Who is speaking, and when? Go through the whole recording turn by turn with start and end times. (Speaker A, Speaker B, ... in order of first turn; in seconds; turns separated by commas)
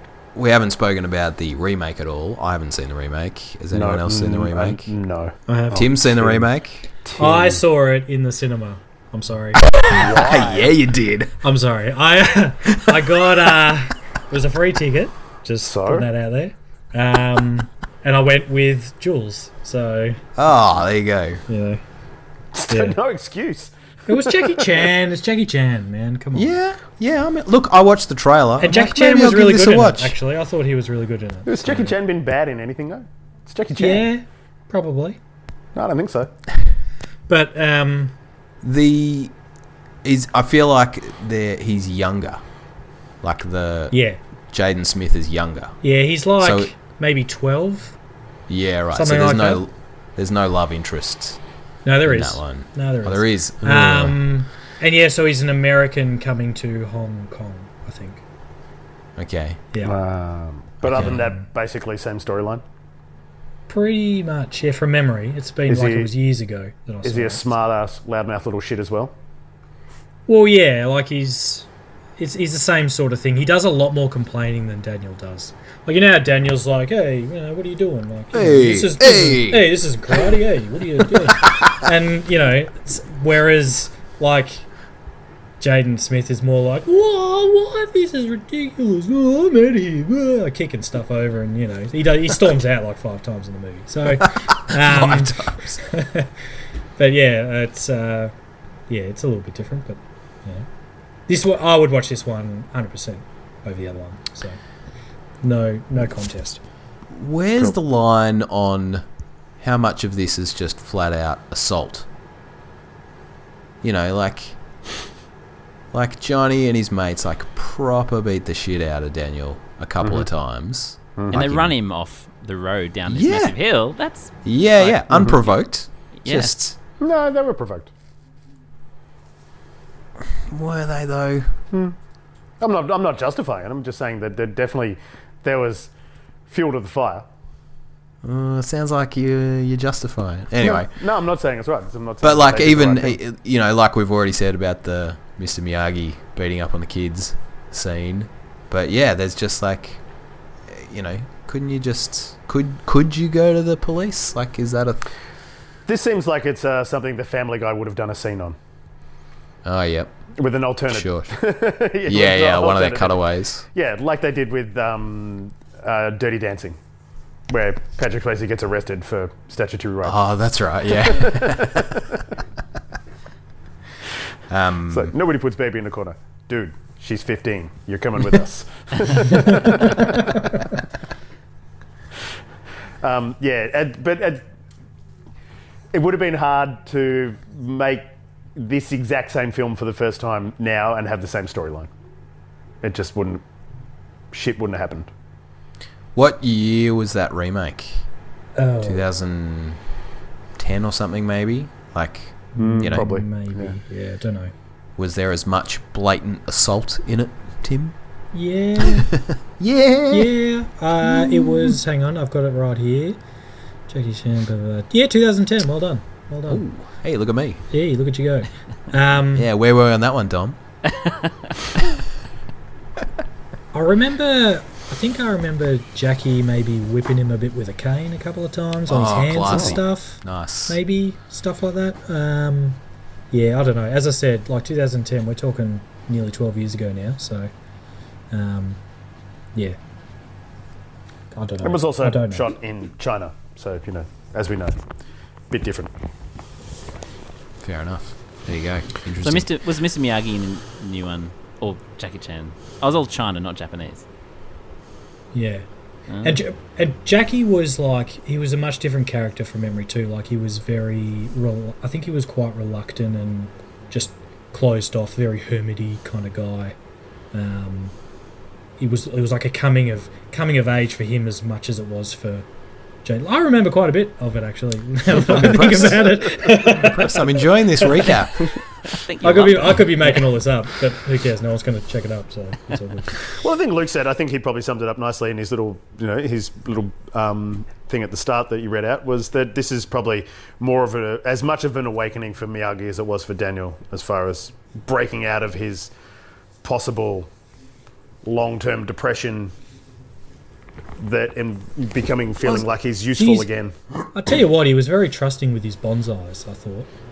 Speaker A: 0.3-4.9, Speaker B: 3.7-6.5, Speaker C: 5.5-5.9, Speaker A: 5.7-6.8, Speaker B: 7.0-7.6, Speaker C: 7.2-9.7, Speaker A: 9.6-11.3, Speaker B: 9.9-10.7, Speaker C: 11.4-20.2, Speaker A: 12.6-13.5, Speaker B: 15.6-16.1, Speaker A: 20.4-21.4, Speaker C: 21.5-21.8, Speaker B: 22.5-24.9, Speaker C: 22.7-23.0, Speaker C: 24.1-26.6, Speaker A: 26.3-30.1, Speaker C: 28.6-31.9, Speaker B: 31.4-34.1, Speaker C: 33.8-35.2, Speaker B: 35.7-36.3, Speaker C: 37.3-38.1, Speaker A: 38.6-39.3, Speaker A: 40.0-42.4, Speaker A: 43.2-43.9, Speaker C: 43.9-44.2, Speaker A: 44.5-45.8, Speaker C: 45.8-47.9, Speaker A: 46.4-46.7, Speaker A: 48.5-51.4, Speaker C: 48.9-49.6, Speaker C: 51.8-58.2, Speaker A: 52.0-54.2, Speaker A: 59.2-59.6, Speaker B: 59.8-62.6, Speaker A: 60.9-61.1, Speaker C: 60.9-61.4, Speaker C: 63.7-67.5, Speaker B: 65.7-66.1, Speaker B: 67.0-69.1, Speaker C: 70.3-71.7, Speaker C: 72.2-84.7, Speaker A: 78.3-79.7, Speaker A: 81.1-81.7, Speaker C: 85.6-96.3, Speaker A: 94.2-95.8, Speaker C: 97.0-98.3, Speaker C: 98.9-100.7, Speaker C: 101.3-104.6, Speaker C: 105.4-106.6, Speaker A: 107.1-109.0, Speaker A: 109.6-112.0, Speaker A: 113.8-114.6, Speaker A: 115.9-121.7, Speaker B: 120.0-120.3, Speaker D: 121.3-125.0, Speaker A: 123.1-123.6, Speaker A: 124.4-126.8, Speaker D: 126.2-126.5, Speaker B: 127.0-127.9, Speaker A: 130.5-131.5, Speaker B: 132.6-135.9, Speaker B: 136.5-137.3, Speaker A: 138.2-140.9, Speaker B: 140.6-143.2, Speaker A: 142.2-150.0, Speaker A: 150.7-155.0, Speaker B: 155.9-158.6, Speaker A: 159.6-160.1, Speaker B: 160.3-166.8, Speaker A: 160.9-161.3, Speaker A: 162.0-163.7, Speaker B: 167.5-170.2, Speaker A: 170.0-172.0, Speaker B: 171.0-172.2, Speaker A: 174.5-175.1, Speaker B: 174.9-180.4, Speaker B: 183.0-184.4, Speaker B: 185.9-191.9, Speaker B: 192.8-193.4, Speaker B: 194.3-195.1, Speaker A: 196.1-198.0, Speaker C: 198.6-199.1, Speaker A: 198.8-199.8, Speaker A: 200.6-203.1, Speaker C: 202.6-204.5, Speaker B: 202.6-203.7, Speaker A: 205.0-207.9, Speaker C: 208.3-209.1, Speaker A: 208.8-210.3, Speaker C: 210.1-213.2, Speaker A: 211.1-211.7, Speaker C: 213.9-216.6, Speaker A: 216.5-217.6, Speaker C: 217.7-219.5, Speaker A: 219.3-220.6, Speaker D: 221.0-221.3, Speaker C: 223.7-232.8, Speaker A: 228.9-230.8, Speaker C: 233.3-237.5, Speaker C: 238.3-238.8, Speaker C: 241.3-242.5, Speaker B: 241.6-244.8, Speaker B: 245.5-245.9, Speaker A: 247.6-249.5, Speaker D: 249.2-254.0, Speaker C: 255.3-255.6, Speaker D: 256.1-256.4, Speaker C: 256.2-266.8, Speaker C: 267.3-267.9, Speaker C: 268.8-272.4, Speaker C: 273.0-278.2, Speaker A: 275.1-278.5, Speaker D: 278.9-280.3, Speaker C: 279.2-283.2, Speaker B: 283.3-295.9, Speaker B: 296.6-297.3, Speaker B: 298.2-299.5, Speaker B: 301.0-303.7, Speaker C: 303.1-303.5, Speaker C: 304.1-306.9